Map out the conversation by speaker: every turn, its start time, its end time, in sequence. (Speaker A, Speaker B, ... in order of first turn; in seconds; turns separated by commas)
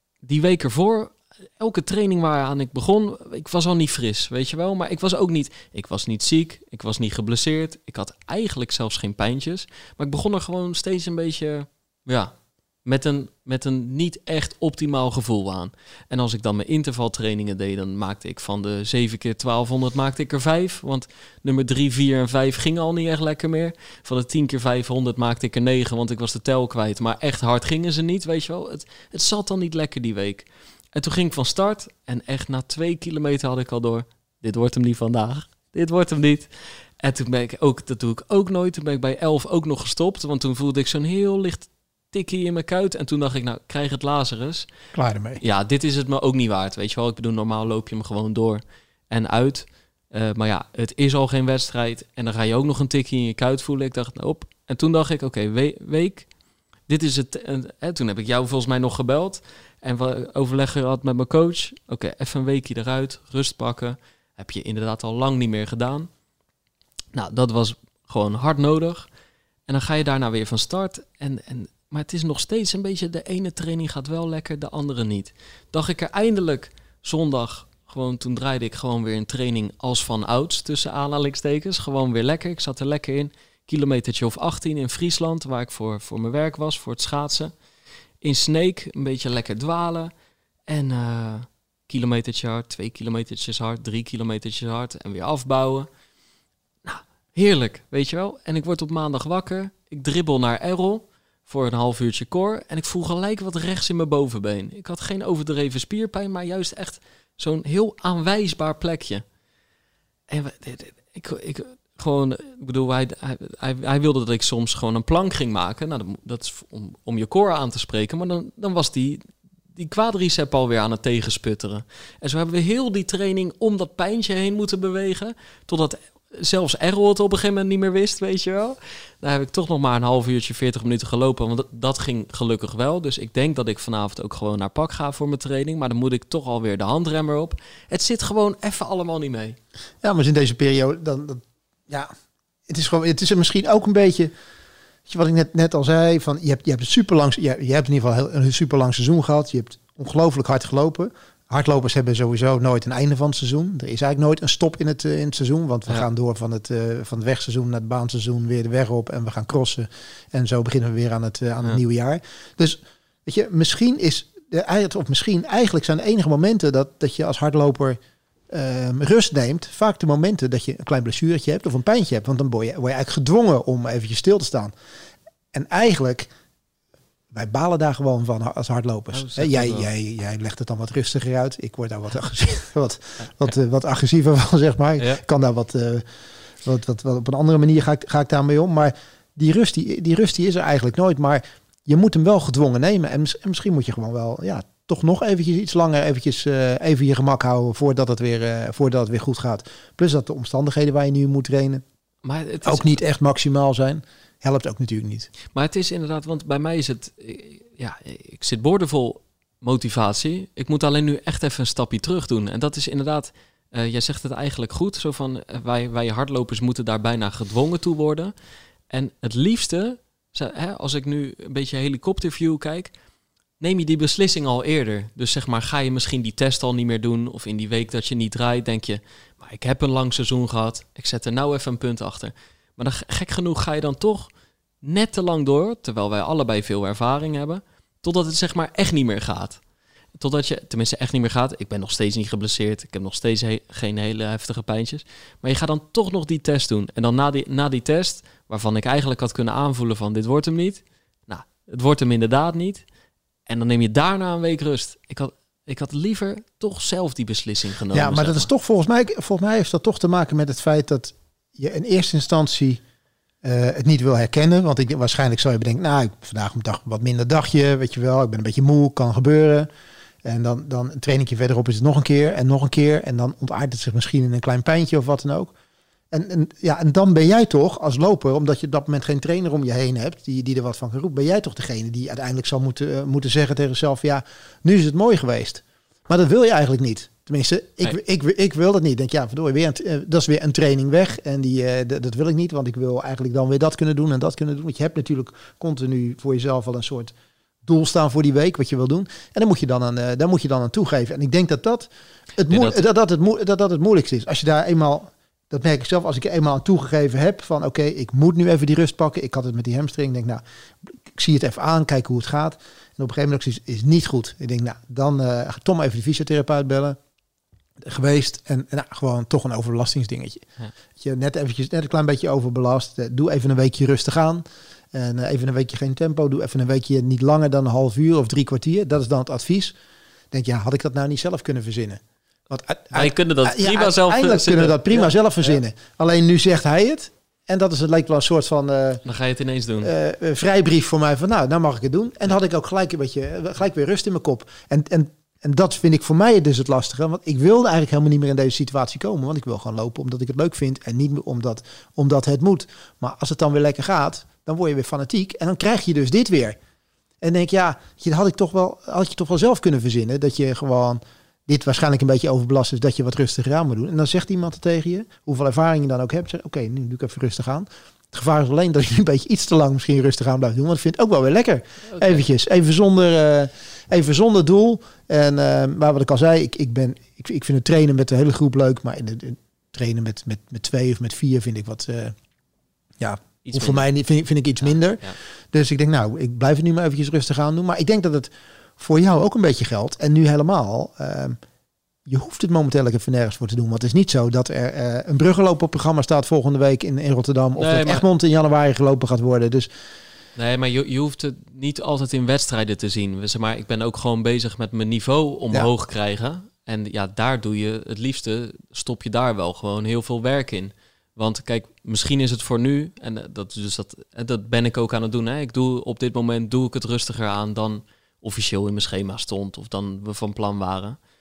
Speaker A: 0.2-36.5, Speaker A: 37.0-44.7, Speaker B: 44.9-45.4, Speaker A: 45.4-56.3, Speaker A: 56.9-66.1, Speaker A: 67.1-69.1, Speaker A: 69.7-87.5, Speaker A: 88.2-90.1, Speaker A: 90.7-95.9, Speaker A: 96.8-109.2, Speaker A: 110.3-139.6, Speaker B: 140.0-142.1, Speaker B: 142.7-144.3, Speaker B: 145.1-168.0, Speaker B: 168.5-174.7, Speaker B: 175.5-176.3, Speaker B: 177.3-186.1, Speaker A: 179.1-179.9, Speaker B: 186.6-201.8, Speaker A: 202.2-203.0, Speaker B: 202.7-205.3, Speaker A: 205.5-218.3, Speaker A: 218.9-222.9, Speaker A: 223.6-234.3, Speaker A: 234.8-239.6, Speaker A: 240.2-252.8, Speaker A: 253.5-258.5, Speaker B: 257.9-262.8, Speaker B: 263.4-269.7, Speaker B: 270.2-275.5, Speaker B: 276.1-297.1, Speaker B: 297.6-317.0, Speaker A: 302.5-302.8, Speaker B: 317.8-329.7, Speaker B: 330.3-339.0, Speaker A: 332.9-335.1, Speaker A: 339.1-339.9, Speaker B: 339.8-356.6, Speaker B: 357.2-382.2, Speaker A: 371.9-372.2, Speaker B: 383.0-391.4, Speaker A: 383.4-383.9, Speaker A: 384.6-385.2, Speaker B: 392.1-399.7, Speaker A: 397.6-398.1, Speaker A: 400.4-421.0